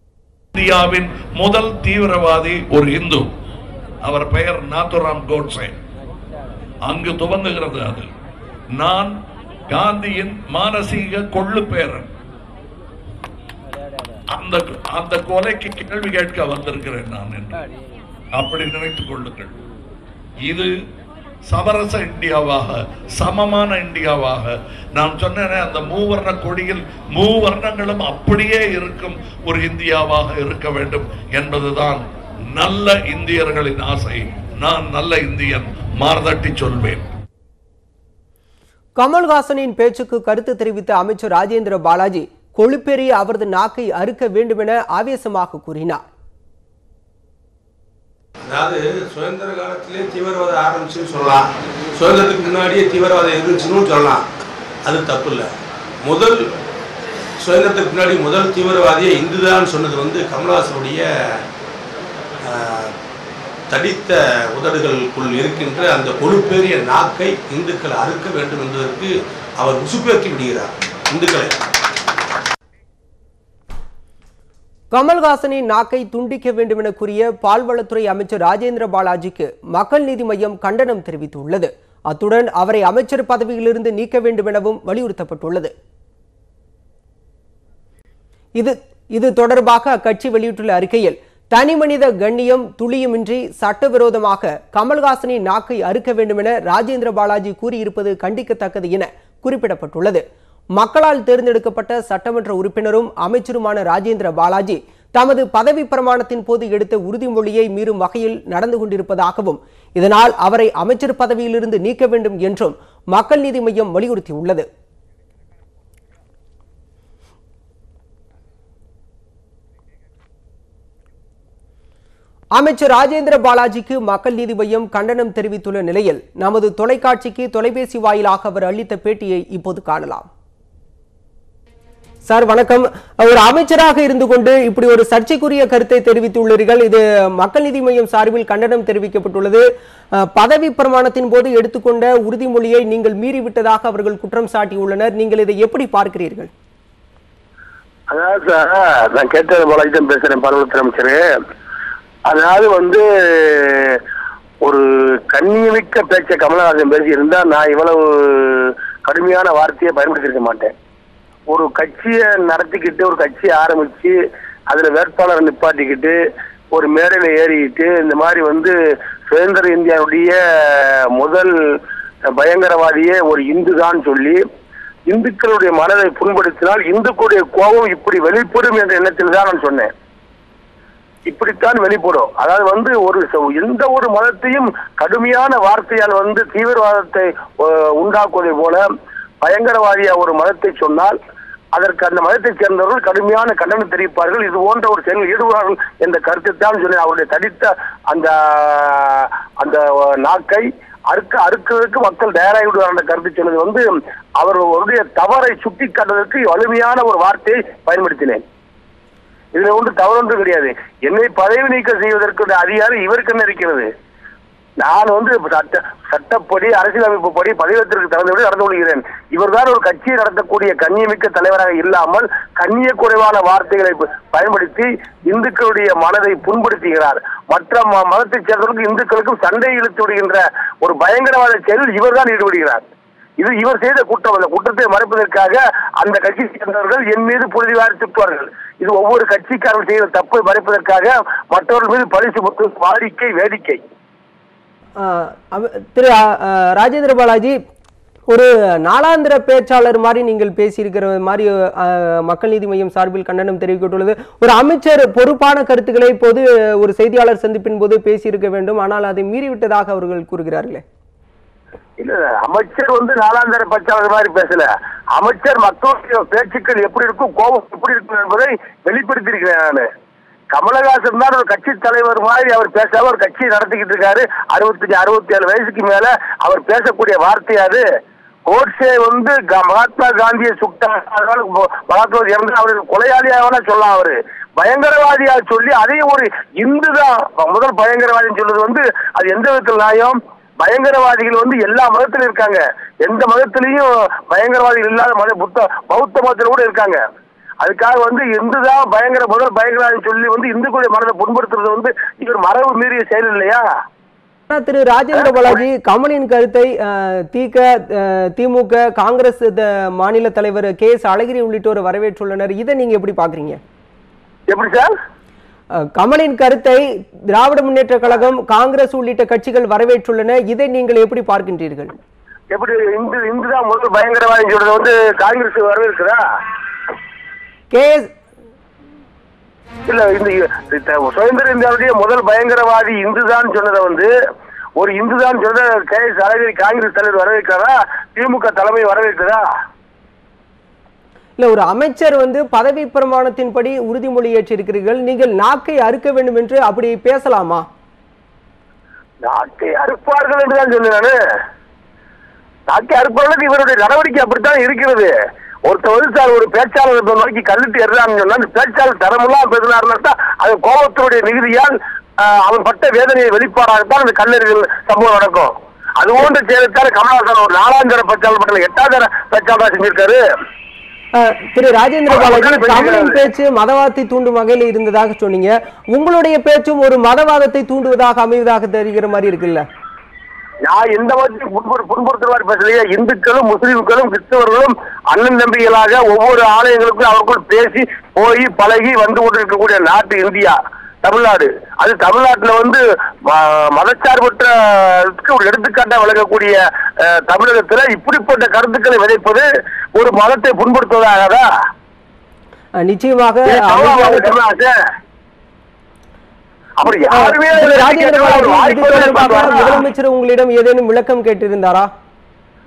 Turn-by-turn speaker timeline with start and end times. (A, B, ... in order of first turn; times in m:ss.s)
0:00.6-0:03.3 A
0:04.0-0:05.8 A
0:06.8-0:08.1 A
0:08.8-0:09.1 A
0:09.7-0:12.1 A
0:14.3-0:17.6 A
0:18.3-0:19.5 A
0:21.5-0:32.0 A
0:32.5-0:37.0 A
0:39.0-0:46.0 B
0:48.5-0:54.2 C
0:54.8-0:55.5 C
0:56.0-0:56.4 C
0:57.4-1:01.1 C
1:02.5-1:02.9 C
1:03.7-1:11.5 C
1:14.9-1:25.7 B
1:28.6-1:40.2 B
1:40.8-1:54.7 B
2:02.6-2:10.3 B
2:12.3-2:19.6 B
2:20.2-2:26.5 B
2:28.1-2:31.2 D
2:32.3-2:34.0 D
2:34.6-2:40.7 D
2:41.5-2:44.1 D
2:44.7-2:46.2 D
2:46.7-2:48.7 D
2:49.3-2:51.5 D
2:52.4-2:54.4 D
2:55.1-2:59.9 D
3:01.3-3:08.8 D
3:09.4-3:11.2 D
3:11.7-3:23.8 D
3:24.4-3:28.4 D
3:29.5-3:33.9 D
3:34.8-3:52.8 D
3:53.4-4:03.8 D
4:05.0-4:07.6 B
4:08.3-4:20.8 B
4:22.0-4:29.9 D
4:30.5-4:37.8 D
4:38.5-4:57.0 D
4:57.6-5:03.7 D
5:04.5-5:13.6 B
5:14.5-5:14.9 D
5:15.8-5:21.9 B
5:22.5-5:26.2 D
5:27.7-5:28.1 B
5:29.9-5:34.1 D
5:34.8-5:39.5 D
5:41.4-5:47.7 B
5:49.2-5:51.2 D
5:52.7-5:55.1 D
5:55.7-6:10.2 D
6:11.1-6:19.6 B
6:12.1-6:13.2 D
6:20.6-6:41.4 D
6:42.8-6:44.4 B
6:43.5-6:44.7 D
6:46.8-6:49.8 D
6:47.1-6:51.9 B